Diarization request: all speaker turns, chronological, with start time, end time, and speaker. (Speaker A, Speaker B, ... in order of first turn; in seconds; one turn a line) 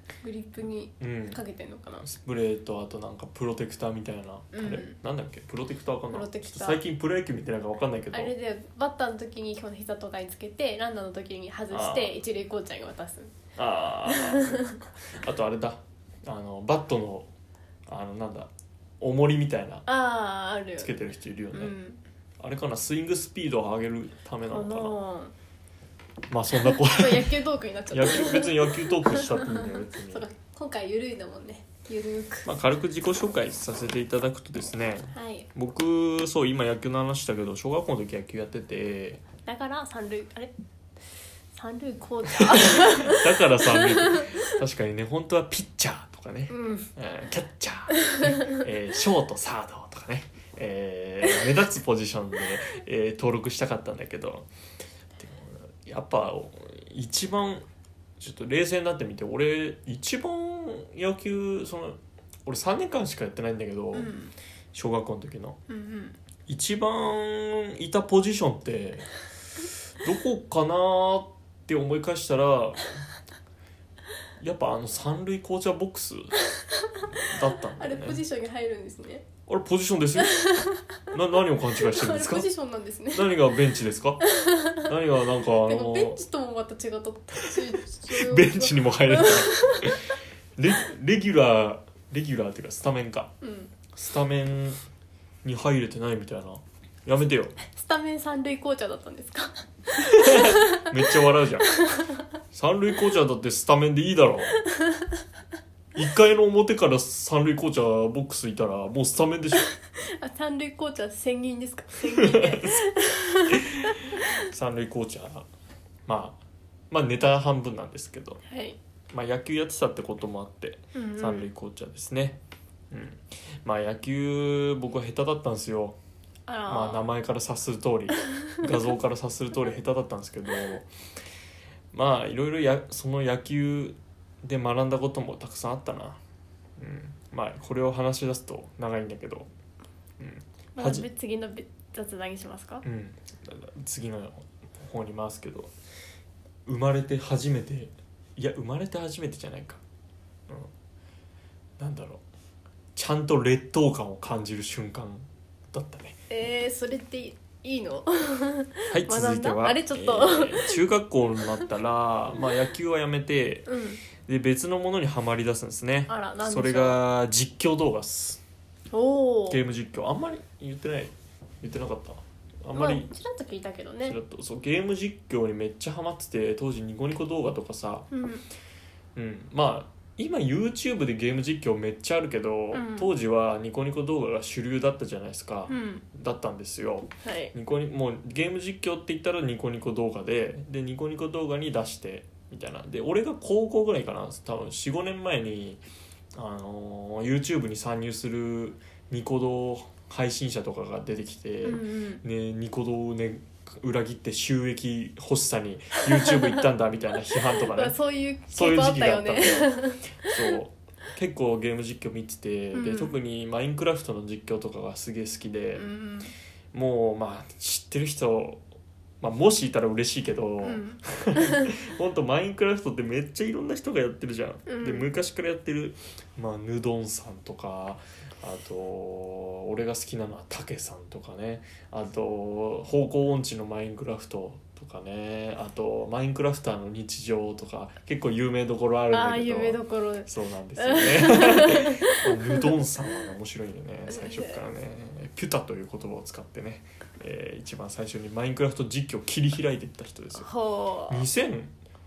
Speaker A: 0.2-2.1
Speaker B: 1.0-1.4
Speaker B: 2.0-8.3
Speaker A: 4.5-5.0
Speaker A: 6.1-6.8
Speaker A: 8.1-13.4
Speaker B: 11.7-12.2
Speaker B: 13.6-17.3
Speaker A: 14.1-14.8
Speaker B: 17.9-19.9
Speaker A: 19.9-20.9
Speaker B: 20.8-21.7
Speaker A: 21.5-22.0
Speaker B: 22.4-24.9
Speaker A: 24.5-25.3
Speaker B: 26.3-27.4
Speaker A: 26.7-32.5
Speaker B: 27.9-30.3
Speaker B: 32.5-39.2
Speaker A: 35.1-35.5
Speaker A: 39.5-40.5
Speaker A: 41.6-44.6
Speaker B: 42.3-54.5
Speaker A: 46.5-46.9
Speaker A: 48.0-48.6
Speaker B: 55.2-57.7
Speaker B: 58.2-64.1
Speaker A: 63.9-64.3
Speaker B: 64.7-65.6
Speaker A: 65.7-66.2
Speaker B: 66.5-69.1
Speaker B: 69.6-73.1
Speaker B: 74.4-76.3
Speaker A: 76.6-79.3
Speaker B: 77.1-78.2
Speaker B: 79.5-80.4
Speaker A: 80.2-81.0
Speaker B: 81.1-82.5
Speaker A: 81.7-83.4
Speaker B: 83.1-84.2
Speaker A: 84.2-90.0
Speaker B: 84.8-86.2
Speaker B: 87.4-93.3
Speaker A: 93.4-93.7
Speaker B: 93.9-94.8
Speaker B: 95.4-97.5
Speaker A: 97.7-101.0
Speaker B: 100.0-101.7
Speaker A: 101.6-102.2
Speaker B: 102.5-104.5
Speaker A: 104.6-105.2
Speaker B: 106.0-109.7
Speaker A: 109.7-114.4
Speaker B: 112.2-112.8
Speaker B: 113.5-115.5
Speaker B: 116.1-116.4
Speaker B: 116.9-118.4
Speaker A: 118.5-118.8
Speaker B: 119.1-126.0
Speaker A: 120.9-121.5
Speaker A: 126.5-127.0
Speaker B: 126.7-130.9
Speaker B: 131.9-136.2
Speaker B: 136.8-139.5
Speaker B: 140.2-141.1
Speaker A: 140.8-142.8
Speaker B: 142.8-145.7
Speaker B: 146.7-149.8
Speaker B: 151.8-152.2
Speaker B: 152.9-156.2
Speaker A: 156.3-160.8
Speaker B: 158.9-163.7
Speaker A: 163.7-164.0
Speaker B: 164.2-168.4
Speaker A: 166.1-167.0
Speaker A: 168.9-169.6
Speaker B: 169.5-173.1
Speaker A: 172.8-174.2
Speaker B: 174.1-178.1
Speaker A: 178.1-178.4
Speaker B: 179.2-195.8
Speaker A: 182.7-183.1
Speaker A: 185.7-186.0
Speaker A: 187.2-187.5
Speaker B: 196.3-208.0
Speaker A: 201.6-202.2
Speaker A: 206.2-206.6
Speaker A: 207.3-210.6
Speaker B: 208.5-215.8
Speaker A: 212.7-213.2
Speaker A: 215.8-216.3
Speaker B: 216.7-218.6
Speaker B: 219.2-250.5
Speaker A: 220.6-221.7
Speaker A: 224.7-225.1
Speaker A: 239.1-242.7
Speaker A: 244.1-244.6
Speaker A: 250.4-251.3
Speaker B: 251.1-251.7